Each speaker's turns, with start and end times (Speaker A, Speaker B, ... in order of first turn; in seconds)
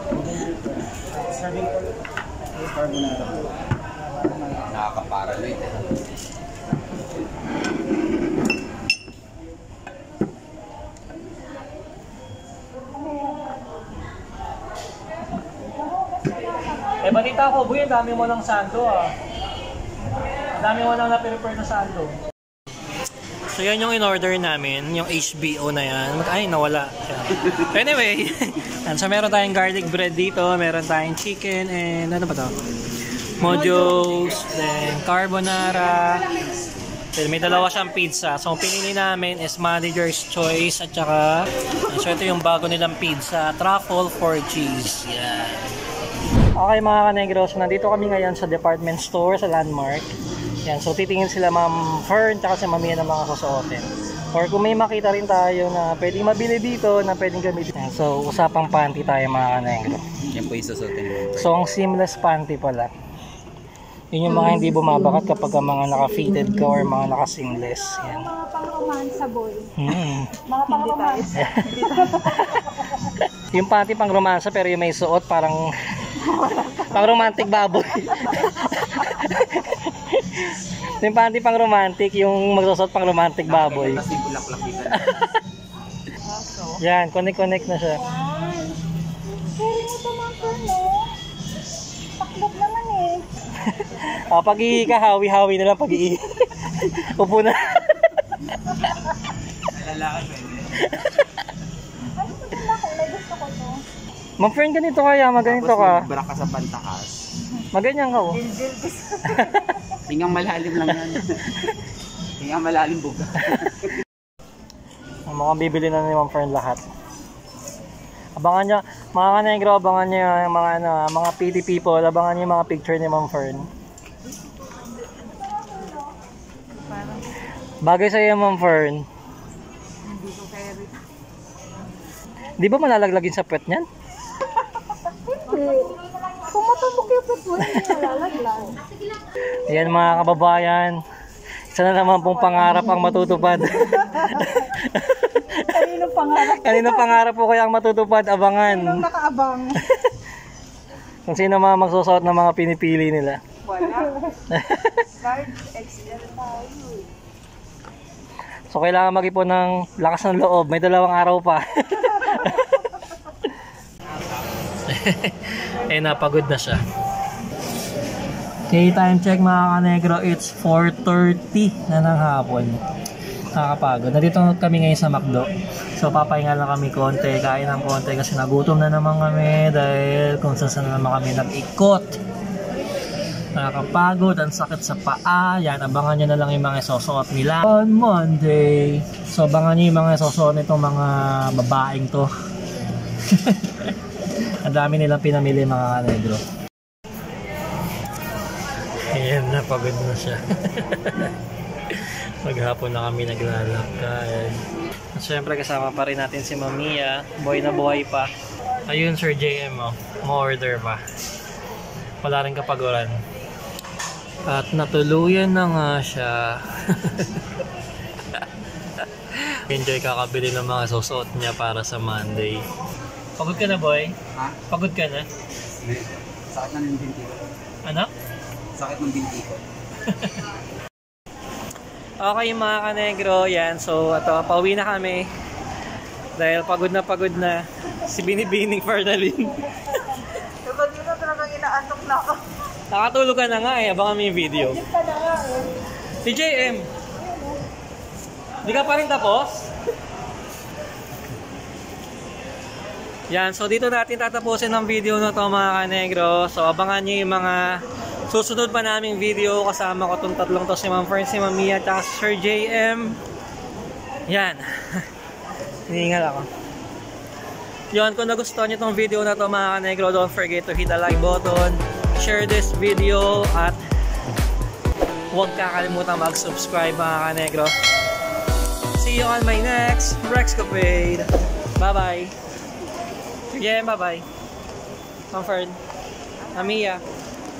Speaker A: 2.5-3.5, 4.6-5.9, 60.3-61.6, 83.5-85.1, 99.6-100.8, 105.4-107.2, 110.1-111.5, 112.4-113.9, 225.8-227.4, 228.8-229.6
Speaker B: 16.0-17.0, 68.0-69.7, 70.7-71.3, 88.0-88.8, 89.6-91.1, 92.2-93.2, 102.2-103.8, 135.1-138.8, 142.6-144.7, 145.5-147.2, 148.6-149.9, 244.8-245.7, 247.2-247.6
Speaker C: 17.0-19.1, 20.5-22.2, 23.5-32.5, 33.4-36.3, 37.1-45.7, 46.6-50.1, 50.6-60.1, 61.4-62.9, 64.1-68.3, 69.8-70.3, 71.4-71.6, 72.3-75.6, 76.9-84.0, 84.9-85.3, 86.8-88.0, 93.6-98.2, 100.8-101.2, 104.4-106.0, 107.7-108.4, 115.3-116.8, 118.4-123.7, 127.8-129.0, 132.6-133.8, 137.6-137.9, 139.5-141.0, 141.7-145.8, 146.3-149.0, 151.3-153.4, 154.5-155.0, 158.7-162.9, 164.9-166.8, 168.7-172.8, 173.5-182.2, 183.5-192.3, 193.3-193.9, 194.6-196.4, 199.0-201.3, 201.9-204.6, 205.1-208.3, 208.9-211.0, 212.2-213.2, 214.4-217.4, 219.3-222.7, 223.4-224.2, 224.7-225.3, 227.8-228.1, 230.1-230.4, 232.2-235.3, 236.4-240.3, 242.9-244.8, 246.2-246.9, 248.6-249.7, 253.3-263.2, 264.3-265.0, 265.9-266.5, 267.9-273.8, 275.3-277.7, 279.0-282.3, 283.5-284.2, 285.3-285.8, 286.5-287.0
Speaker D: 70.5-72.6, 76.2-77.5, 78.2-78.5, 86.3-86.8, 108.4-109.7, 126.7-127.4, 130.0-131.0, 153.6-154.2, 155.2-157.1, 240.6-242.4, 286.4-286.9